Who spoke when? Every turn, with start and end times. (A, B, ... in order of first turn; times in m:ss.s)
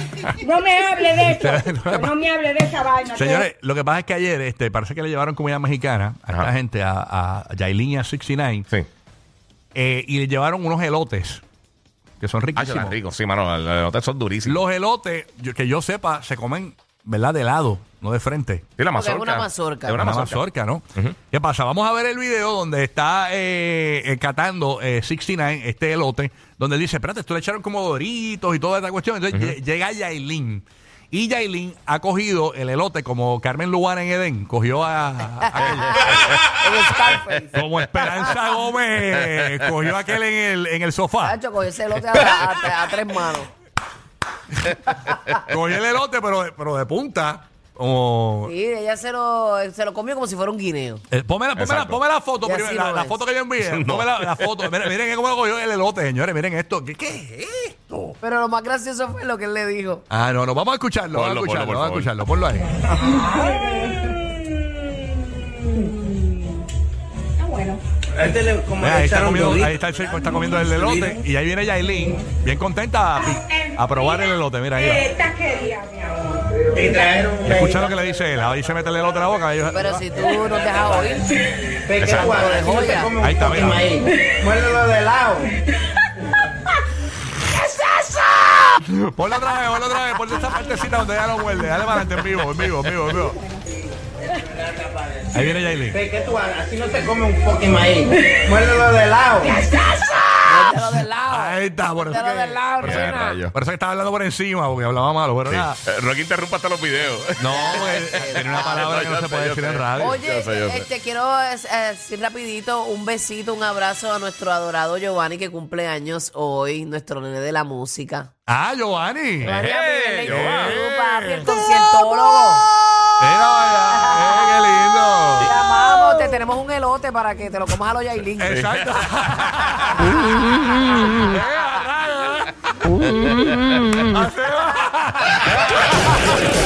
0:00.2-0:03.4 A
0:01.2-0:02.2 B
0:03.1-0:08.7 B
0:09.7-0:11.4 B
0:12.2-0:13.0 B
0:12.6-0:14.6 C
0:14.4-0:18.7 B
0:18.8-0:21.1 C
0:18.9-0:20.0 D
0:20.0-0:36.4 B
0:35.6-0:38.3 D
0:37.5-0:41.4 B
0:41.2-0:43.5 D
0:45.3-0:48.5 B
0:48.4-0:51.0 D
0:51.1-0:57.9 B
0:51.5-0:52.0 C
0:52.4-0:53.2 D
0:53.6-0:54.9 C
0:58.2-1:00.0 D
1:00.1-1:02.8 B
1:01.1-1:02.1 C
1:03.1-1:03.7 A
1:05.8-1:06.6 A
1:07.4-1:07.8 A
1:08.1-1:09.8 E
1:08.8-1:15.1 B
1:10.8-1:11.1 E
1:14.8-1:16.4 A
1:16.6-1:17.9 E
1:17.4-1:20.1 B
1:19.7-1:21.3 D
1:21.8-1:25.5 E
1:22.0-1:22.4 C
1:22.1-1:23.2 D
1:23.2-1:23.9 B
1:27.7-1:28.6 D
1:28.6-1:33.4 B
1:35.3-1:36.0 B
1:35.9-1:39.6 E
1:39.6-1:43.4 D
1:40.6-1:45.8 B
1:42.8-1:43.5 C
1:45.5-1:50.9 C
1:47.4-1:50.2 B
1:47.5-1:48.8 D
1:50.0-1:58.3 D
1:58.5-1:59.6 B
1:59.4-2:02.6 D
1:59.4-2:00.8 C
2:00.2-2:01.9 B
2:03.2-2:06.0 B
2:03.9-2:04.5 D
2:05.4-2:08.6 D
2:08.4-2:12.9 B
2:08.5-2:09.5 C
2:13.2-2:13.8 C
2:14.0-2:16.0 B